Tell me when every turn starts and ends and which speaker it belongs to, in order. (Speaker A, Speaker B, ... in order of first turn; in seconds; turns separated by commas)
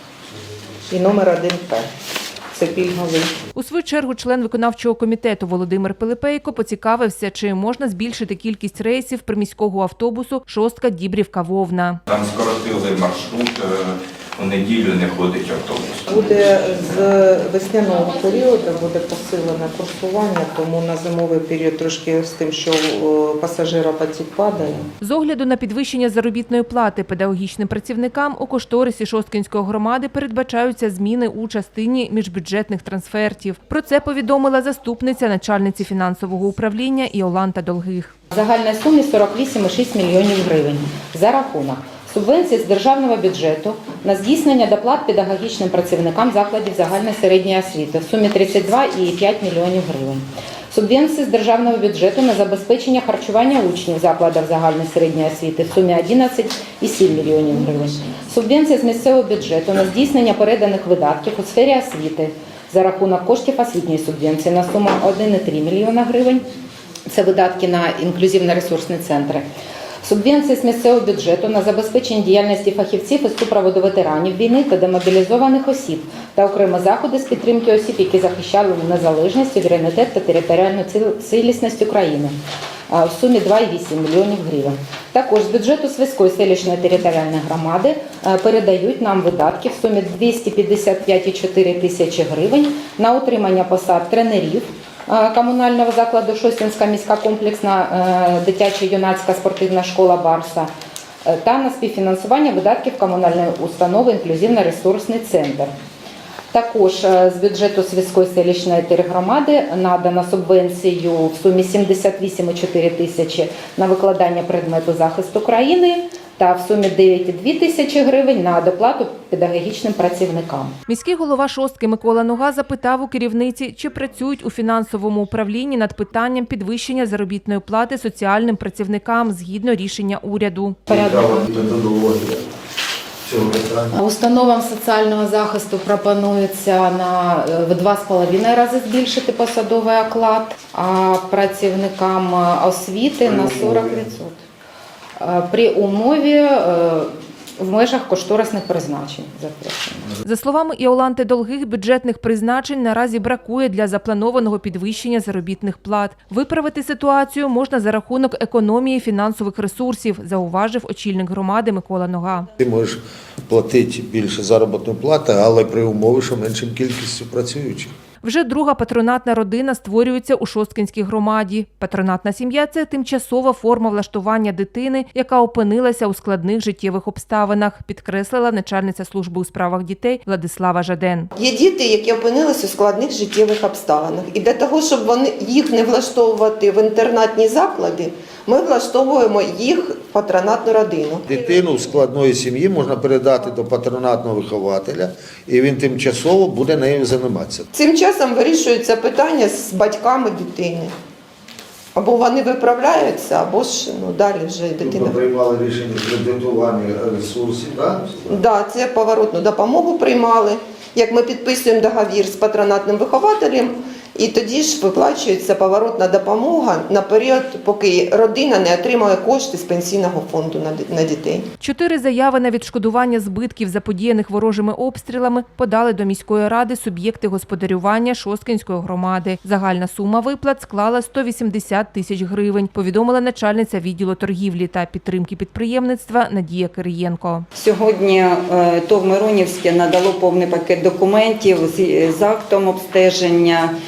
Speaker A: 0.9-1.9, Speaker A: 2.5-3.3, Speaker B: 3.5-12.0, Speaker C: 12.1-16.4, Speaker A: 16.1-24.8, Speaker B: 25.0-38.1, Speaker D: 38.3-66.5, Speaker D: 67.1-69.4, Speaker D: 70.0-82.3, Speaker D: 82.9-100.7, Speaker D: 101.2-105.7, Speaker D: 106.5-120.7, Speaker B: 120.9-130.8, Speaker E: 130.9-132.5, Speaker D: 130.9-131.5, Speaker E: 133.2-133.9, Speaker D: 133.9-144.4, Speaker E: 143.2-144.0, Speaker D: 145.2-150.1, Speaker B: 150.2-162.5, Speaker E: 162.6-167.9, Speaker B: 168.2-181.3, Speaker F: 181.3-191.2, Speaker E: 191.3-197.7, Speaker F: 197.7-200.9, Speaker F: 201.9-205.1, Speaker E: 204.8-208.4, Speaker F: 208.3-221.5, Speaker B: 221.6-237.4, Speaker G: 237.6-243.7